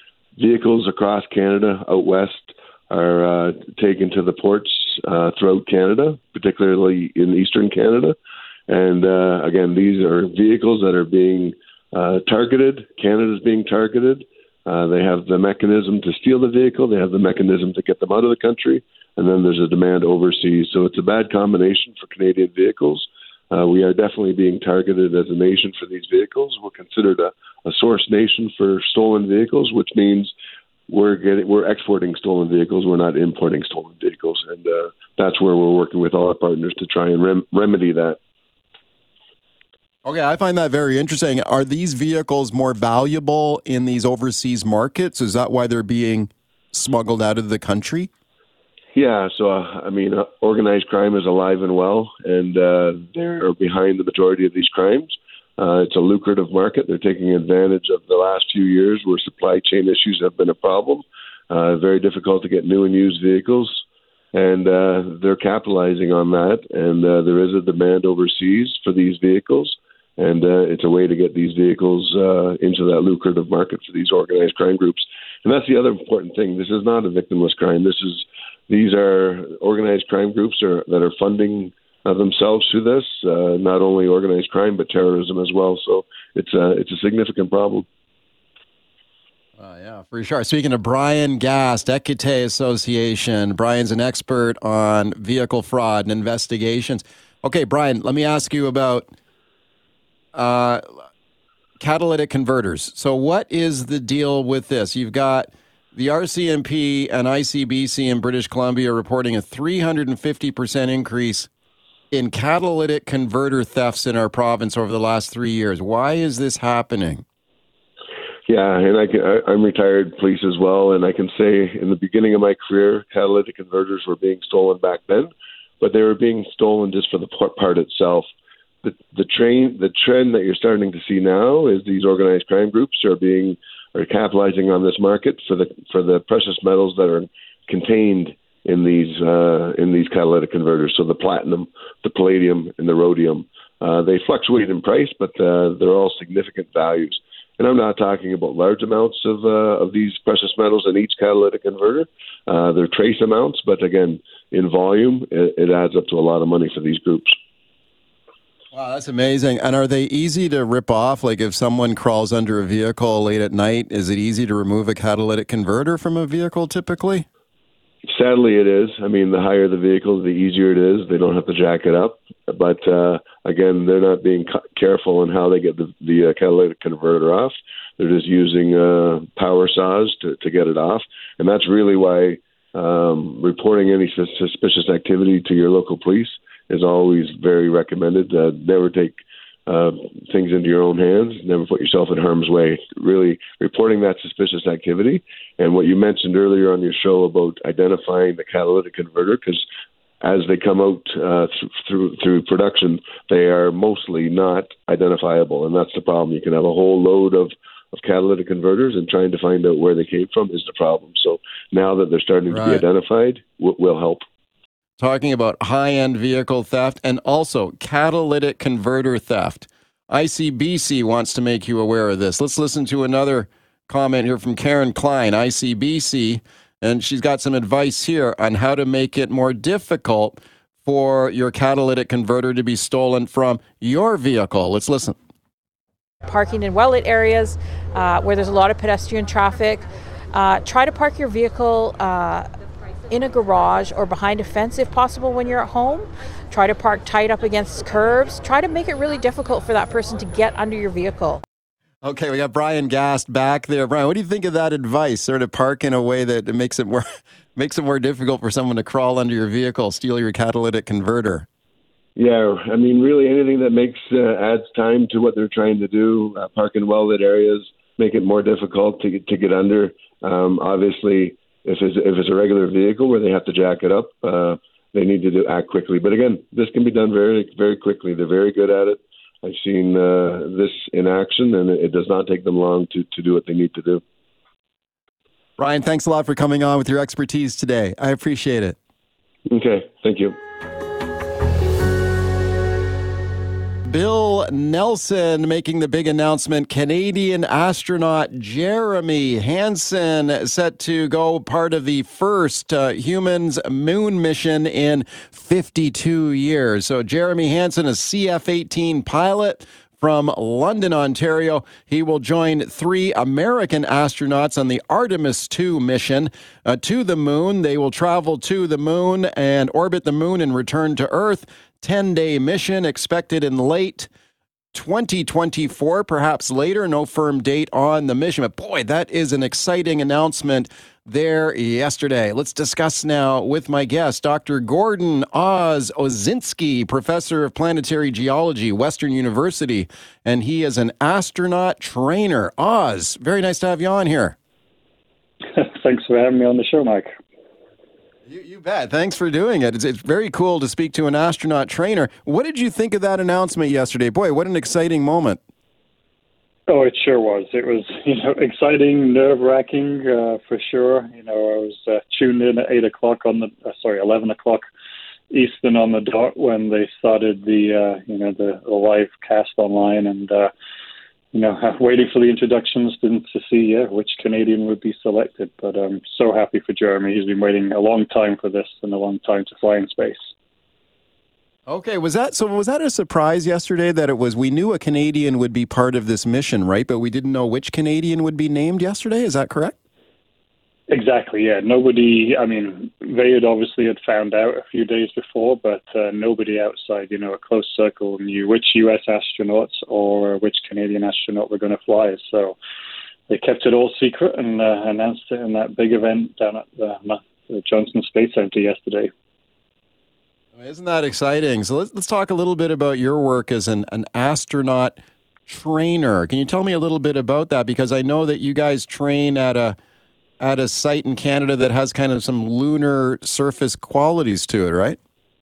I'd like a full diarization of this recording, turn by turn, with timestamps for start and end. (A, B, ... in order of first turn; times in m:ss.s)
0:00.4-0:08.2 A
0:08.7-0:30.3 A
0:30.9-0:38.2 A
0:40.0-0:48.1 B
0:48.9-1:27.9 A
1:29.6-1:39.1 B
1:40.3-1:40.8 B
1:41.8-1:51.5 B
1:52.1-1:57.2 B
1:58.5-2:08.3 A
2:08.8-2:37.4 A
2:38.7-2:47.2 B
2:48.1-3:19.6 A
3:20.2-3:34.2 A
3:32.5-3:32.8 B
3:35.0-3:55.2 B
3:56.2-4:02.5 C
4:03.1-4:11.4 C
4:12.0-4:21.5 B
4:22.2-4:44.0 A
4:45.6-4:48.8 B
4:49.5-4:50.4 A
4:53.9-5:24.1 B
5:24.7-5:44.4 B
5:45.5-5:47.1 D
5:48.3-5:55.4 B
5:56.7-6:04.6 D
6:05.3-6:10.5 D
6:11.3-6:20.3 D
6:21.7-6:29.8 B
6:30.9-6:42.6 D
6:43.3-6:49.1 D
6:50.6-6:59.8 B
7:00.4-7:05.0 B